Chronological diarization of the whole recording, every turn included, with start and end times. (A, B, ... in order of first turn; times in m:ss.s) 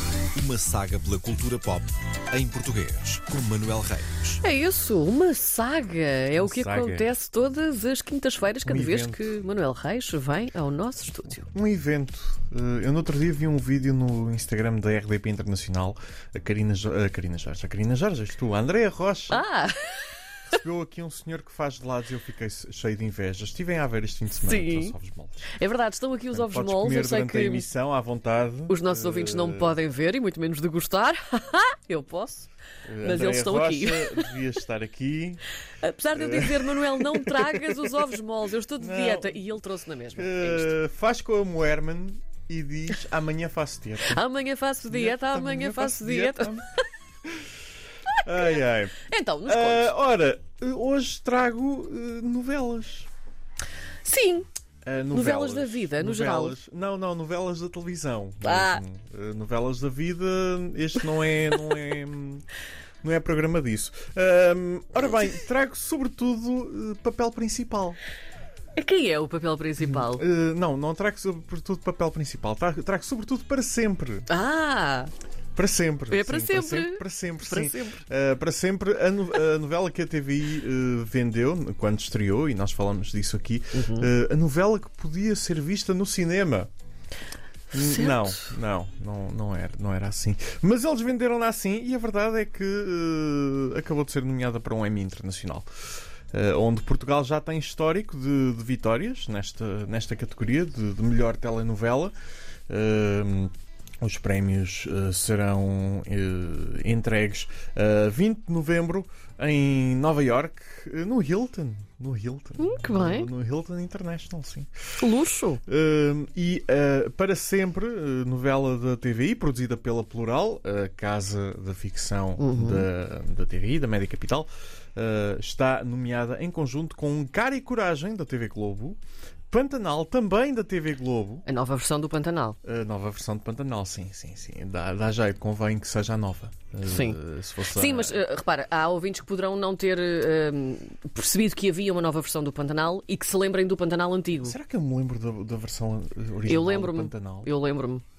0:00.3-0:04.4 A
0:04.4-0:11.5 B
0:06.3-0:07.1 C
0:08.6-0:09.3 C
0:11.5-0:19.4 C
0:19.3-0:20.2 B
0:20.5-0:25.5 C
0:24.4-0:25.0 B
0:25.5-0:27.7 B
0:26.3-0:29.8 C
0:28.7-0:34.3 B
0:32.9-0:35.4 C
0:35.8-0:40.7 B
0:36.1-0:38.1 C
0:38.8-0:39.5 C
0:40.1-0:44.2 C
0:44.0-0:46.6 B
0:44.9-0:46.7 C
0:48.1-0:49.9 B
0:48.2-0:53.1 C
0:54.0-0:54.5 B
0:54.8-1:02.4 C
0:55.1-0:56.6 B
0:58.4-0:58.8 B
1:03.0-1:08.0 C
1:08.7-1:10.2 B
1:09.8-1:14.3 C
1:14.3-1:15.1 B
1:15.5-1:26.7 C
1:16.1-1:18.0 B
1:23.7-1:24.1 B
1:27.7-1:42.1 C
1:27.7-1:28.5 B
1:42.7-1:54.7 C
1:52.6-1:53.3 B
1:55.0-1:55.6 B
1:55.6-2:09.0 C
2:02.4-2:02.9 B
2:09.5-2:11.4 C
2:11.4-2:12.6 B
2:12.6-2:18.2 C
2:16.8-2:24.6 B
2:24.4-2:27.5 C
2:26.4-2:28.0 B